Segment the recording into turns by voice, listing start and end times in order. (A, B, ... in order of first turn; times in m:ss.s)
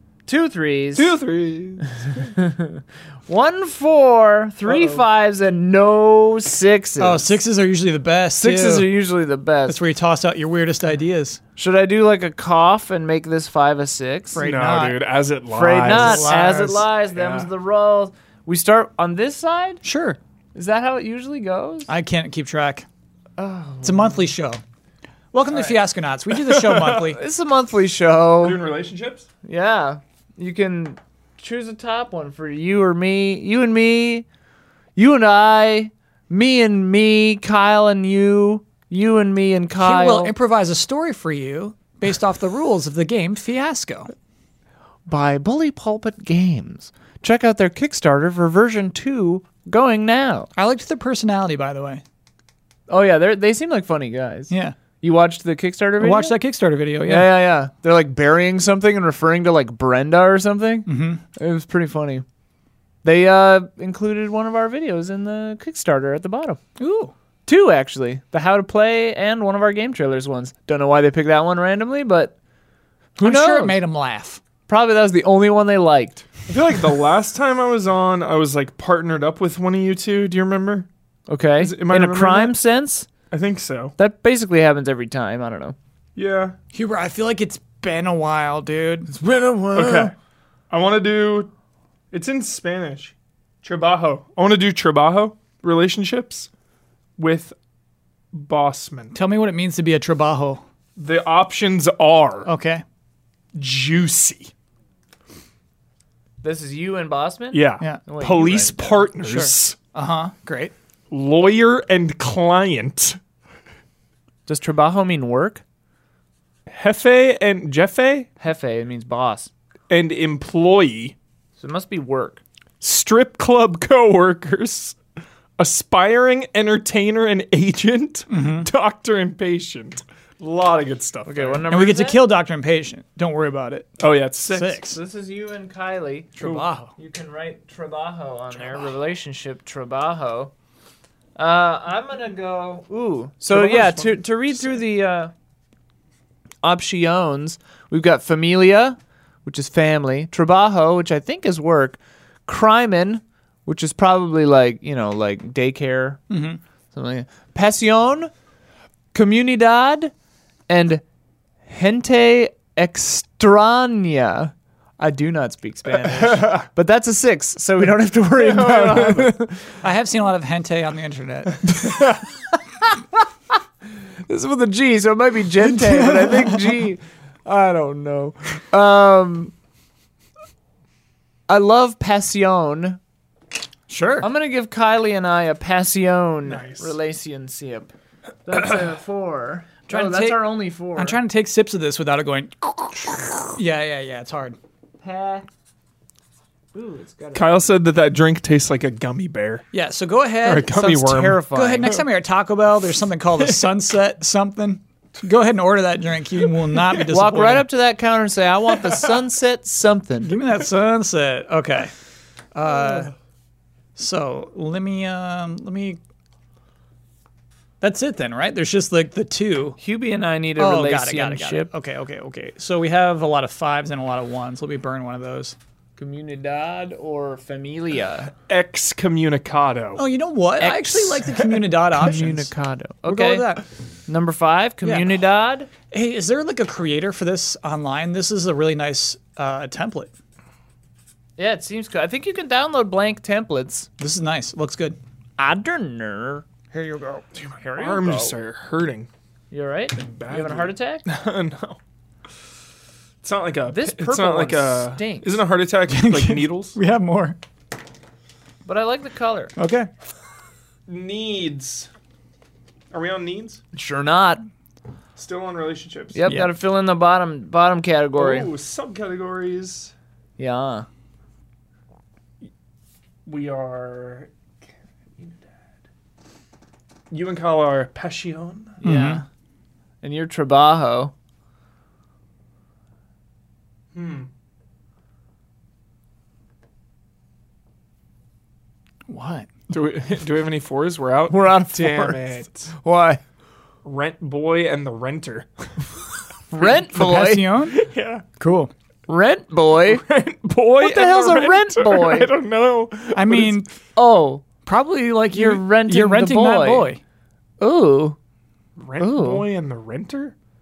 0:00.3-0:01.2 A
0:00.9-0:02.3 B
0:02.2-0:07.2 A
0:04.7-0:05.0 B
0:07.0-0:08.9 C
0:08.4-0:09.8 A
0:09.7-0:11.4 C
0:11.6-0:14.4 A
0:14.3-0:15.0 C
0:14.4-0:17.5 B
0:15.5-0:19.8 A
0:15.8-0:16.8 C
0:19.8-0:20.2 C
0:20.5-0:21.9 A
0:21.9-0:22.8 C
0:23.4-0:24.3 A
0:23.8-0:24.6 C
0:25.3-0:27.2 C
0:25.5-0:25.8 A
0:26.3-0:27.0 B
0:26.9-0:28.6 A
0:28.4-0:29.3 B
0:29.4-0:34.2 A
0:35.0-0:40.3 A
0:39.8-0:44.1 C
0:45.1-0:50.5 A
0:50.6-0:52.0 C
0:52.9-0:56.3 A
0:54.5-0:54.8 C
0:56.0-0:57.3 C
0:57.0-1:02.2 A
1:00.8-1:01.2 C
1:03.0-1:06.6 A
1:06.8-1:07.1 C
1:07.5-1:12.3 A
1:13.2-1:13.8 A
1:13.2-1:14.4 C
1:14.7-1:16.3 A
1:16.5-1:20.9 B
1:21.3-1:23.1 A
1:21.6-1:22.6 B
1:23.3-1:23.9 B
1:24.0-1:25.8 A
1:26.2-1:26.6 B
1:26.7-1:29.1 C
1:29.1-1:30.1 A
1:29.7-1:30.1 B
1:30.7-1:31.5 B
1:32.1-1:36.5 B
1:37.2-1:37.5 B
1:38.3-1:39.2 B
1:39.1-1:40.6 C
1:41.0-1:42.5 B
1:42.5-1:42.8 C
1:43.5-1:44.5 B
1:46.4-1:49.1 A
1:47.5-1:49.8 B
1:49.2-1:50.7 C
1:51.1-1:53.2 B
1:54.5-1:55.6 A
1:56.7-1:58.3 B
1:58.4-1:59.5 A
1:59.9-2:01.2 B
2:01.6-2:02.4 A
2:02.8-2:05.0 B
2:05.6-2:11.6 B
2:08.3-2:08.7 C
2:11.3-2:12.2 A
2:11.7-2:15.0 C
2:14.0-2:14.8 B
2:14.8-2:20.5 A
2:16.4-2:16.9 C
2:21.4-2:25.3 A
2:23.5-2:24.8 B
2:26.6-2:36.2 A
2:36.3-2:36.6 C
2:36.9-2:38.3 A
2:39.1-2:40.1 A
2:40.7-2:41.0 A
2:41.7-2:49.7 A
2:46.1-2:46.5 B
2:48.4-2:49.3 B
2:49.8-2:51.9 C
2:51.8-2:52.1 B
2:54.2-2:59.5 A
2:55.8-2:56.8 C
3:01.5-3:03.0 A
3:03.9-3:04.3 C
3:04.2-3:07.9 A
3:06.4-3:07.0 B
3:08.5-3:11.2 A
3:09.9-3:10.4 C
3:11.0-3:14.6 C
3:15.0-3:15.5 A
3:16.7-3:17.6 A
3:17.3-3:19.7 B
3:19.7-3:20.7 C
3:20.4-3:22.0 B
3:20.7-3:22.0 A
3:21.5-3:27.7 C
3:27.0-3:30.4 A
3:30.2-3:31.9 C
3:32.5-3:33.1 C
3:34.0-3:36.0 C
3:37.8-3:39.8 C
3:39.8-3:41.7 A
3:40.6-3:45.6 C
3:46.0-3:48.3 A
3:48.5-3:50.0 B
3:50.0-3:52.5 C
3:50.6-3:51.3 A
3:52.0-3:53.5 A
3:53.0-3:53.7 C
3:54.1-3:55.7 A
3:54.8-3:55.1 C
3:55.9-4:00.1 C
4:01.4-4:03.9 A
4:04.0-4:05.0 C
4:05.4-4:06.5 A
4:06.7-4:07.3 C
4:07.3-4:09.1 B
4:07.7-4:08.4 A
4:09.5-4:11.0 A
4:10.0-4:11.8 B
4:13.2-4:16.8 B
4:13.7-4:15.4 A
4:15.9-4:17.4 C
4:18.6-4:19.5 A
4:19.6-4:19.9 C
4:20.9-4:21.9 B
4:22.9-4:23.6 B
4:23.7-4:24.4 A
4:25.2-4:26.2 B
4:26.1-4:28.5 A
4:28.2-4:29.9 B
4:30.4-4:30.9 A
4:33.2-4:34.3 B
4:35.2-4:35.5 B
4:37.1-4:38.8 B
4:38.8-4:39.2 A
4:38.8-4:39.2 C
4:40.0-4:41.1 A
4:43.9-4:44.3 B
4:49.1-4:49.5 C
4:49.7-4:52.7 B
4:51.3-4:53.2 A
4:53.8-4:56.0 B
4:56.5-4:57.5 A
4:56.9-4:57.8 C
4:57.7-4:58.2 B
4:58.4-4:58.7 C
4:59.1-5:00.0 A
4:59.8-5:03.6 B
5:00.8-5:02.3 A
5:03.1-5:03.7 C
5:04.0-5:04.5 A
5:04.6-5:07.0 C
5:05.3-5:07.0 A
5:07.6-5:08.2 A
5:08.8-5:10.3 B
5:09.0-5:09.5 A